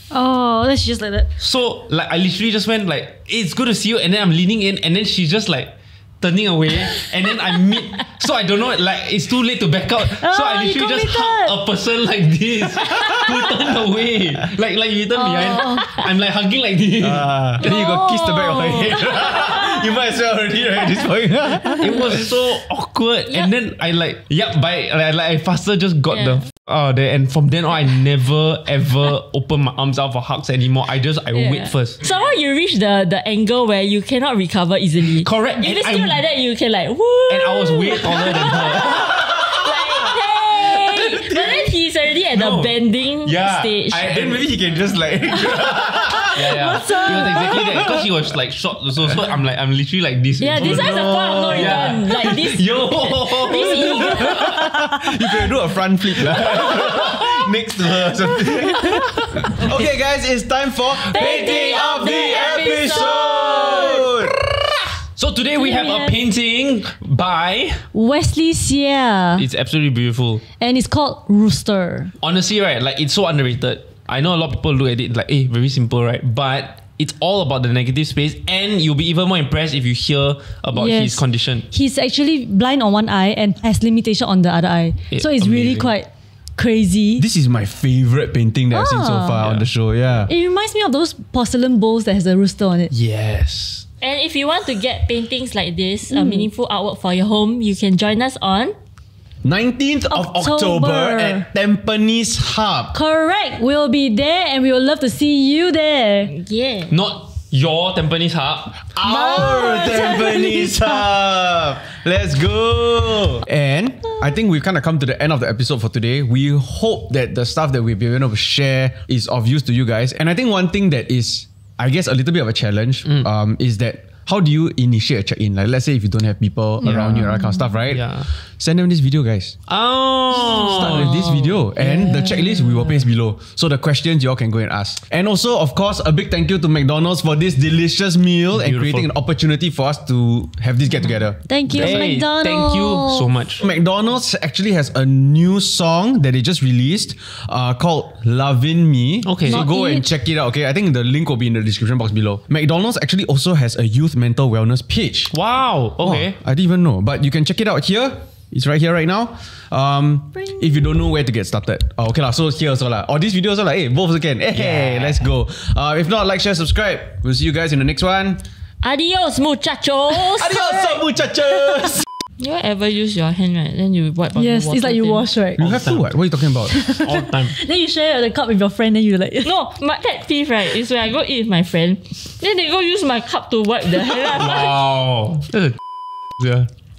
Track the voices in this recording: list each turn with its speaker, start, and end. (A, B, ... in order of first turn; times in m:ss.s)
0:00.1-0:01.3 A
0:01.4-0:17.3 B
0:10.1-0:11.6 A
0:15.2-0:16.0 C
0:17.0-0:22.3 D
0:17.6-0:19.9 C
0:21.8-0:32.0 B
0:26.1-0:26.4 C
0:31.3-0:44.1 C
0:35.2-0:36.2 B
0:37.3-0:39.3 B
0:39.1-0:41.7 D
0:42.3-0:44.9 B
0:44.0-0:46.7 D
0:46.3-0:54.6 B
0:46.6-0:47.8 A
0:46.7-0:47.3 C
0:47.6-0:47.9 D
0:50.4-0:54.7 C
0:50.6-0:52.4 D
0:54.2-1:04.5 D
0:56.4-0:57.3 B
0:58.6-0:59.6 B
1:01.0-1:04.1 C
1:05.2-1:07.9 B
1:05.6-1:06.2 A
1:07.9-1:09.5 A
1:09.4-1:10.4 B
1:10.6-1:12.1 A
1:12.2-1:21.7 B
1:20.7-1:27.2 A
1:25.1-1:25.9 B
1:27.2-1:30.3 D
1:28.7-1:29.4 A
1:29.4-1:29.7 B
1:30.3-1:32.9 A
1:32.9-1:33.9 B
1:34.0-1:38.8 C
1:36.1-1:36.5 A
1:39.4-1:43.0 D
1:40.1-1:41.5 A
1:42.9-1:46.3 A
1:46.3-1:46.9 C
1:46.9-1:48.9 B
1:48.9-2:09.6 D
1:49.0-1:51.0 A
2:06.8-2:07.4 B
2:07.2-2:07.6 A
2:07.9-2:08.3 B
2:09.7-2:11.6 B
2:10.3-2:22.0 D
2:11.8-2:13.0 A
2:18.5-2:19.1 B
2:21.5-2:23.3 A
2:21.7-2:23.6 B
2:23.6-2:35.3 D
2:29.3-2:29.6 B
2:29.5-2:30.0 C
2:29.5-2:30.0 A
2:35.3-2:36.4 B
2:36.0-2:48.4 D
2:44.5-2:45.2 B
2:48.8-2:51.0 C
2:50.3-2:52.0 D
2:52.4-2:55.3 C
2:54.4-2:55.7 A
2:55.6-2:56.8 D
2:55.6-2:56.0 B
2:56.7-2:59.5 A
2:56.9-2:57.6 B
2:59.4-3:04.8 C
3:04.2-3:05.8 B
3:06.4-3:06.7 B